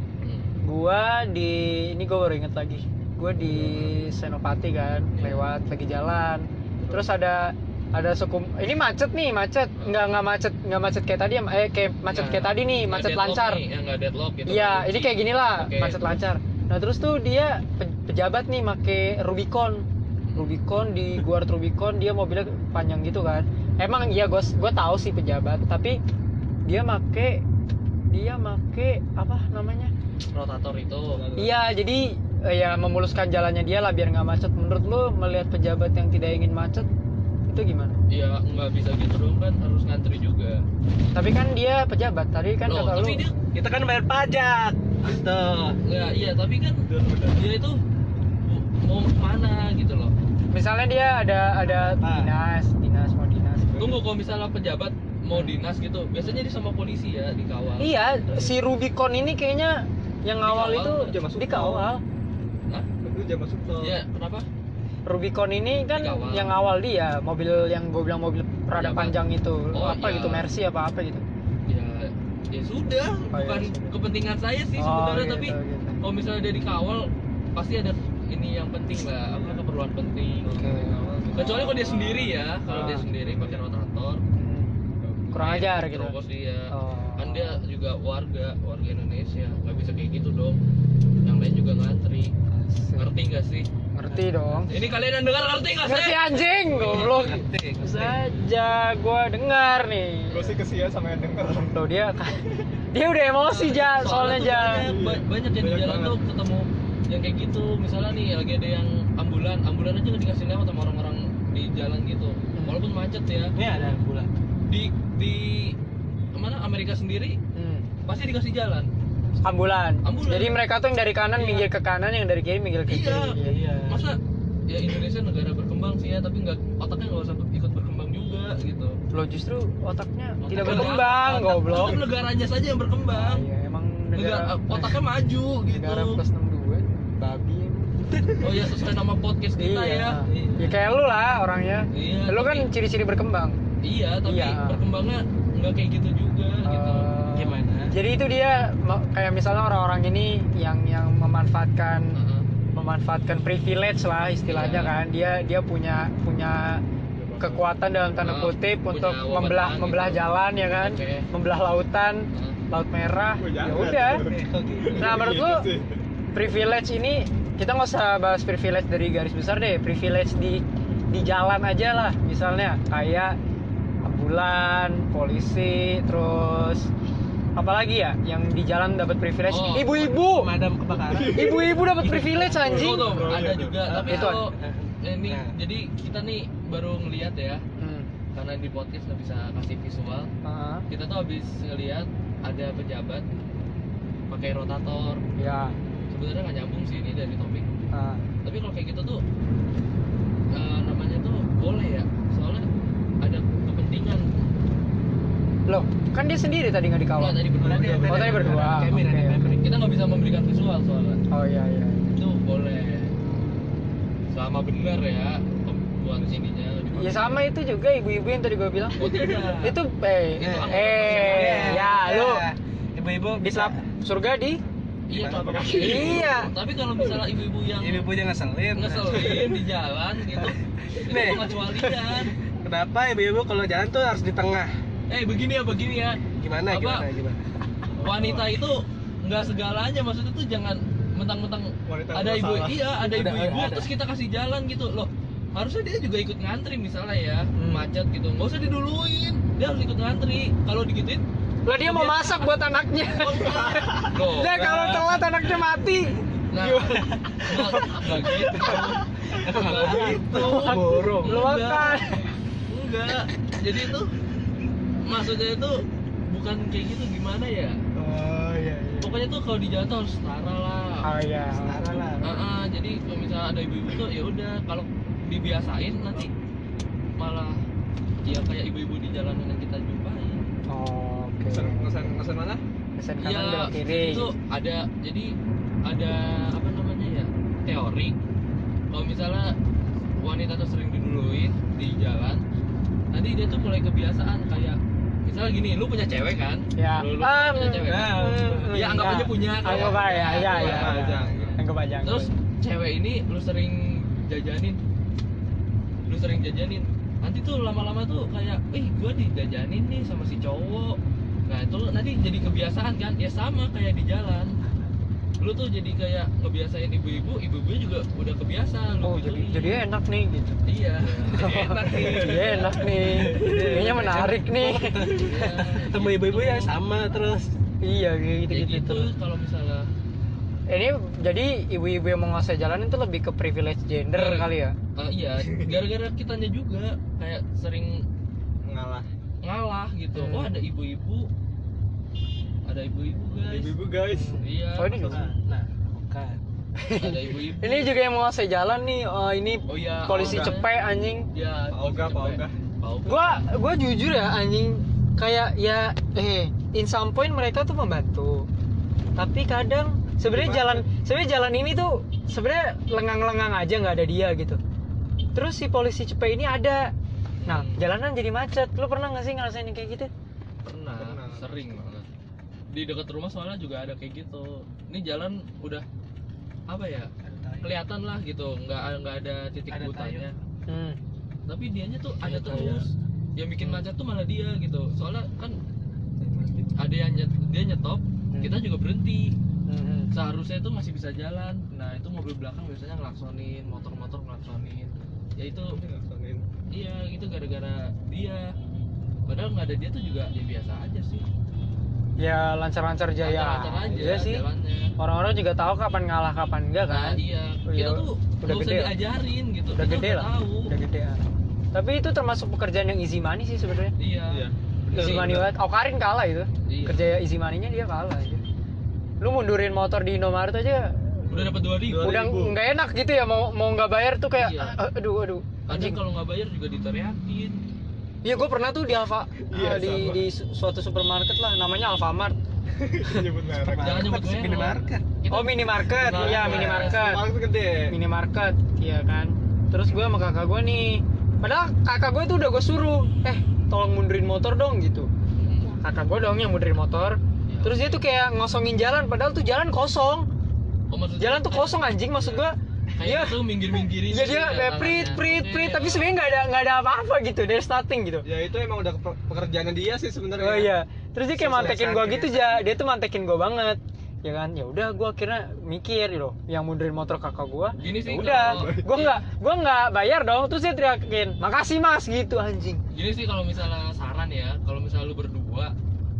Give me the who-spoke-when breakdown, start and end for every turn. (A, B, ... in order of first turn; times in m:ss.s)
0:00.2-0:00.5 A
0:00.6-0:13.6 B
0:05.1-0:05.5 A
0:12.1-0:16.2 A
0:14.5-0:26.0 B
0:20.2-0:20.6 A
0:26.6-0:27.4 B
0:28.1-0:29.9 B
0:30.3-0:31.2 A
0:31.1-0:31.6 C
0:31.4-0:36.9 B
0:37.5-0:38.0 B
0:38.1-0:40.6 A
0:41.1-0:43.2 B
0:42.7-0:43.3 A
0:43.5-0:45.8 D
0:45.8-0:47.8 A
0:46.8-0:47.4 C
0:48.4-0:50.1 A
0:50.5-0:53.8 B
0:51.6-0:52.3 D
0:53.7-0:54.0 C
0:53.8-0:58.6 A
0:55.3-0:55.6 B
0:57.8-1:02.0 B
1:00.4-1:01.1 A
1:00.9-1:01.9 C
1:03.0-1:04.0 C
1:03.8-1:04.4 A
1:05.0-1:11.2 B
1:05.9-1:06.6 A
1:08.8-1:09.2 A
1:09.7-1:10.5 A
1:11.7-1:24.2 A
1:13.3-1:13.9 B
1:14.8-1:16.0 B
1:19.3-1:19.6 C
1:20.4-1:23.6 C
1:20.4-1:21.9 B
1:22.7-1:23.1 B
1:24.3-1:24.7 B
1:25.0-1:25.4 C
1:25.3-1:26.1 B
1:25.3-1:30.6 A
1:26.7-1:27.6 B
1:31.2-1:32.3 A
1:32.5-1:33.1 B
1:33.0-1:33.7 A
1:33.9-1:34.7 B
1:34.7-1:37.4 A
1:35.8-1:40.6 B
1:36.8-1:38.1 D
1:40.3-1:41.8 C
1:41.7-1:44.9 B
1:43.5-1:53.5 A
1:44.7-1:46.2 C
1:52.5-1:52.8 B
1:53.6-1:54.3 D
1:54.7-1:55.8 A
1:56.3-1:57.4 A
1:57.5-1:57.8 B
1:58.0-1:58.9 A
1:59.4-2:03.6 B
2:00.0-2:00.6 A
2:01.4-2:01.7 A
2:02.9-2:09.0 A
2:03.4-2:04.1 D
2:09.1-2:12.0 B
2:10.4-2:13.4 A
2:13.1-2:15.0 B
2:14.1-2:16.2 A
2:15.6-2:18.4 B
2:18.4-2:20.8 A
2:19.6-2:23.6 B
2:20.3-2:20.6 D
2:21.9-2:22.7 A
2:23.8-2:27.1 A
2:24.2-2:24.8 B
2:26.6-2:32.2 B
2:27.3-2:27.9 D
2:32.1-2:32.5 A
2:32.7-2:36.8 B
2:34.5-2:34.9 A
2:37.2-2:38.0 C
2:37.4-2:44.2 B
2:38.2-2:41.3 A
2:42.3-2:42.6 A
2:43.4-2:46.0 C
2:44.2-2:45.2 D
2:45.0-2:45.7 B
2:46.3-2:53.4 B
2:54.0-2:56.9 B
2:57.6-3:00.5 B
2:59.5-3:00.1 A
3:00.0-3:02.5 D
3:01.0-3:03.8 C
3:01.3-3:03.2 B
3:02.6-3:04.5 A
3:03.8-3:05.5 D
3:04.0-3:04.4 B
3:05.0-3:07.6 A
3:07.8-3:08.1 B
3:08.3-3:10.3 A
3:10.4-3:10.8 B
3:10.9-3:13.2 A
3:14.3-3:15.2 A
3:15.4-3:15.7 B
3:16.1-3:17.6 A
3:17.9-3:18.2 B
3:18.4-3:19.2 A
3:20.5-3:22.7 A
3:23.2-3:24.3 A
3:25.7-3:27.4 B
3:27.2-3:28.9 A
3:27.6-3:28.7 C
3:27.6-3:29.7 D
3:28.1-3:29.4 B
3:29.6-3:31.2 A
3:31.3-3:32.1 B
3:32.1-3:33.1 A
3:34.3-3:37.4 A
3:36.9-3:39.1 B
3:39.0-3:39.8 A
3:39.0-3:39.4 C
3:39.6-3:42.4 B
3:40.4-3:41.9 A
3:40.4-3:43.8 D
3:43.4-3:44.6 B
3:45.1-3:48.1 A
3:45.2-3:46.3 C
3:45.2-3:46.1 D
3:45.7-3:46.5 B
3:47.8-3:49.5 D
3:48.7-3:52.3 A
3:51.1-3:51.5 D
3:52.6-3:54.7 D
3:55.1-3:57.0 A
3:56.3-3:57.4 D
3:58.0-3:58.5 C
3:58.0-4:11.2 A
4:01.8-4:02.8 C
4:03.1-4:03.9 D
4:07.5-4:07.9 B
4:11.6-4:18.9 B
4:11.8-4:12.5 A
4:13.1-4:15.5 A
4:16.5-4:22.0 A
4:19.4-4:21.5 D
4:19.6-4:22.3 B
4:22.7-4:24.1 A
4:25.0-4:27.8 A
4:28.0-4:29.2 D
4:29.0-4:31.0 A
4:31.0-4:32.0 B
4:31.5-4:32.4 D
4:32.2-4:36.3 A
4:37.2-4:37.6 A
4:38.2-4:40.4 A
4:40.7-4:42.0 B
4:41.4-4:42.6 C
4:43.0-4:44.3 B
4:43.2-4:45.3 A
4:45.8-4:48.1 A
4:48.9-4:49.6 A
4:50.2-4:52.4 A
4:53.1-5:04.8 A
4:56.8-5:02.3 B
4:57.8-4:58.7 C
4:59.6-5:01.6 C
5:06.0-5:14.5 A
5:15.4-5:19.8 A
5:19.0-5:20.6 B
5:20.6-5:23.8 A
5:21.2-5:25.5 B
5:22.0-5:23.8 C
5:23.2-5:27.5 D
5:25.0-5:26.7 A
5:27.8-5:29.1 B
5:28.5-5:29.9 A
5:30.7-5:34.7 B
5:34.1-5:38.0 A
5:35.4-5:35.7 C
5:38.6-5:39.1 C
5:39.4-5:41.3 A
5:40.1-5:40.6 B
5:42.7-5:43.7 A
5:43.4-5:44.4 C
5:44.1-5:45.3 B
5:44.4-5:45.2 A
5:45.0-5:46.4 D
5:46.8-5:51.3 B
5:47.0-5:47.9 A
5:49.7-5:50.7 A
5:50.2-5:50.5 C
5:51.3-5:53.4 A
5:51.7-5:52.6 C
5:53.0-5:58.5 B
5:59.2-6:04.6 B
6:00.2-6:00.8 C
6:05.3-6:06.9 B
6:07.4-6:07.8 A
6:07.4-6:10.1 B
6:10.6-6:12.1 A
6:10.9-6:12.0 C
6:12.7-6:15.8 A
6:16.7-6:17.1 A
6:17.2-6:17.7 D
6:17.6-6:20.3 A
6:19.7-6:20.3 D
6:20.7-6:21.0 B
6:21.5-6:25.6 A
6:22.2-6:22.8 B
6:26.2-6:26.7 C
6:26.8-6:29.3 A
6:29.7-6:30.1 B
6:30.1-6:35.8 A
6:35.5-6:36.5 C
6:36.7-6:38.5 A
6:39.3-6:41.2 A
6:42.2-6:44.4 B
6:43.2-6:44.9 A
6:43.9-6:44.2 C
6:45.0-6:48.9 B
6:46.9-6:50.7 A
6:49.7-6:53.9 B
6:54.0-6:55.4 A
6:54.3-6:55.4 C
6:54.9-6:58.4 B
6:56.6-6:57.1 A
6:59.2-7:01.4 B
7:01.3-7:02.1 A
7:01.3-7:02.6 C
7:02.0-7:06.0 B
7:04.4-7:04.8 A
7:05.7-7:07.6 A
7:08.2-7:12.4 B
7:09.5-7:10.2 C
7:12.8-7:14.1 C
7:13.6-7:15.0 D
7:13.7-7:17.1 A
7:15.3-7:17.2 B
7:16.0-7:17.9 C
7:17.9-7:25.1 B
7:25.4-7:25.7 A
7:25.7-7:30.3 B
7:27.5-7:28.0 A
7:30.9-7:32.4 A
7:31.2-7:38.2 B
7:33.0-7:36.1 A
7:38.2-7:40.7 C
7:40.4-7:52.8 B
7:41.3-7:42.7 D
7:47.8-7:49.2 A
7:48.2-7:48.9 C
7:52.9-7:55.7 A